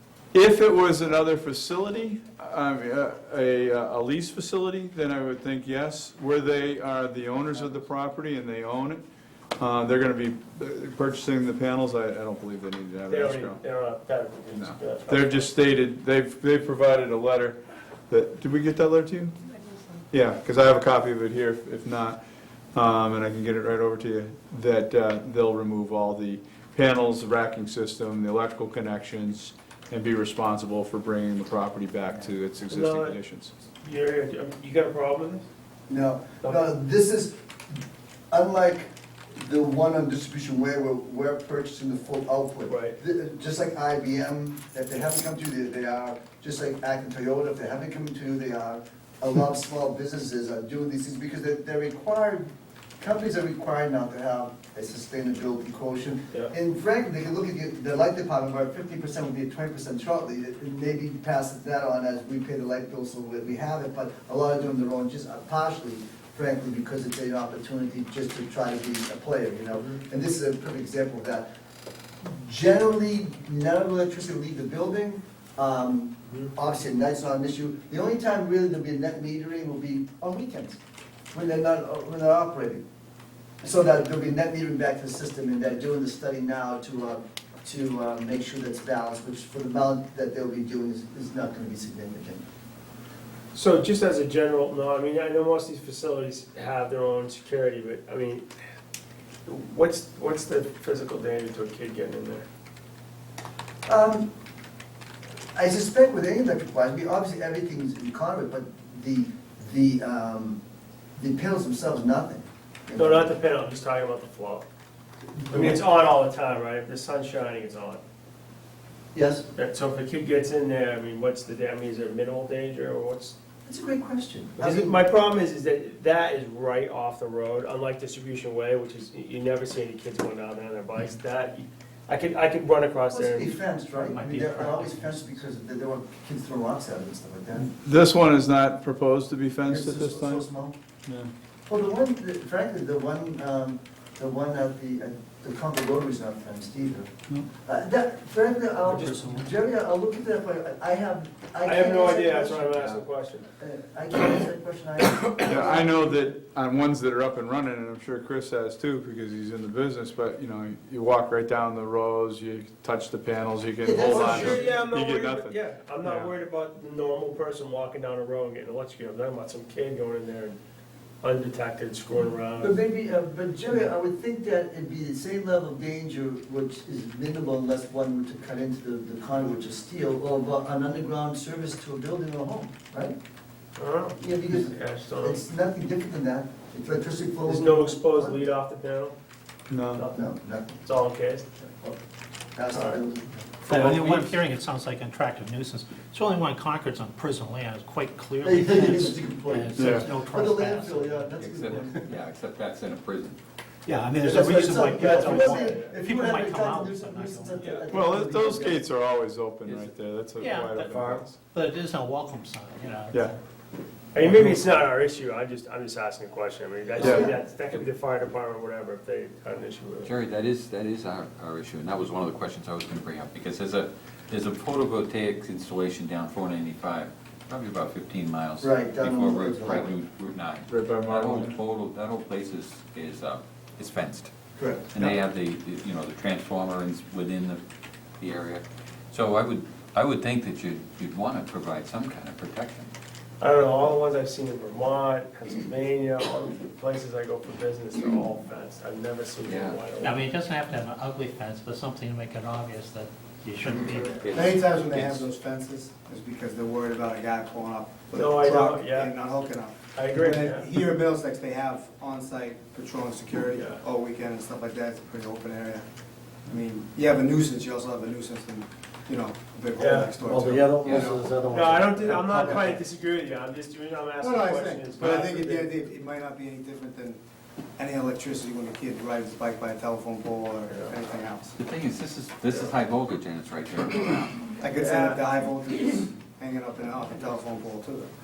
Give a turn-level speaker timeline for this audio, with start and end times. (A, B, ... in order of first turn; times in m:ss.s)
0:00.3-0:09.0 A
0:09.6-0:13.6 A
0:13.1-0:15.5 B
0:14.5-0:19.4 A
0:20.1-0:22.2 A
0:22.7-0:33.5 A
0:32.7-0:33.2 B
0:33.8-0:35.4 B
0:35.9-0:37.8 C
0:38.3-0:52.5 C
0:42.7-0:43.0 B
0:53.0-1:11.5 C
1:12.2-1:20.8 C
1:21.3-1:22.8 C
1:23.6-1:32.4 C
1:33.5-1:38.5 B
1:39.4-1:42.5 B
1:43.8-1:44.3 C
1:45.5-1:50.6 C
1:51.2-1:53.3 C
1:53.0-1:54.6 B
1:55.4-1:55.8 C
1:55.5-1:58.0 B
1:59.1-1:59.5 C
1:59.5-2:03.4 B
2:03.6-2:05.0 C
2:04.6-2:13.5 B
2:13.1-2:17.7 C
2:14.0-2:15.4 D
2:17.6-2:20.4 A
2:19.6-2:20.8 C
2:21.7-2:27.1 C
2:27.6-2:33.0 C
2:31.6-2:33.4 B
2:33.6-2:36.3 C
2:35.4-2:46.3 A
2:43.8-2:44.7 C
2:44.1-2:50.6 B
2:51.2-2:52.8 B
2:52.6-3:03.2 C
3:03.8-3:05.4 B
3:04.2-3:08.4 C
3:07.4-3:09.2 B
3:09.7-3:10.0 A
3:09.9-3:10.2 B
3:10.1-3:10.8 C
3:10.8-3:11.5 B
3:11.6-3:12.0 C
3:12.5-3:13.4 C
3:12.7-3:13.0 B
3:13.6-3:21.3 D
3:13.7-3:14.0 B
3:18.4-3:22.1 C
3:19.7-3:20.1 A
3:21.4-3:23.4 E
3:23.8-3:27.6 D
3:24.2-3:28.8 C
3:24.8-3:26.0 B
3:27.6-3:27.8 B
3:27.9-3:31.4 A
3:30.4-3:33.4 D
3:34.1-3:40.1 B
3:37.0-3:37.4 C
3:40.0-3:54.3 E
3:48.6-3:49.9 C
3:50.7-3:51.6 A
3:54.6-3:54.9 C
3:54.9-3:57.6 E
3:58.2-4:02.9 E
4:03.4-4:10.2 B
4:09.4-4:09.8 E
4:10.0-4:14.3 D
4:14.0-4:15.3 E
4:14.3-4:25.8 F
4:18.1-4:19.1 B
4:19.9-4:20.6 B
4:23.5-4:23.8 B
4:26.5-4:31.2 F
4:29.8-4:30.1 B
4:30.2-4:32.8 G
4:30.8-4:31.2 E
4:31.4-4:35.7 B
4:32.3-4:32.6 F
4:34.2-4:37.2 F
4:37.8-4:41.5 F
4:40.7-4:40.9 B
4:41.6-4:44.6 E
4:44.6-4:48.1 F
4:44.7-4:45.2 B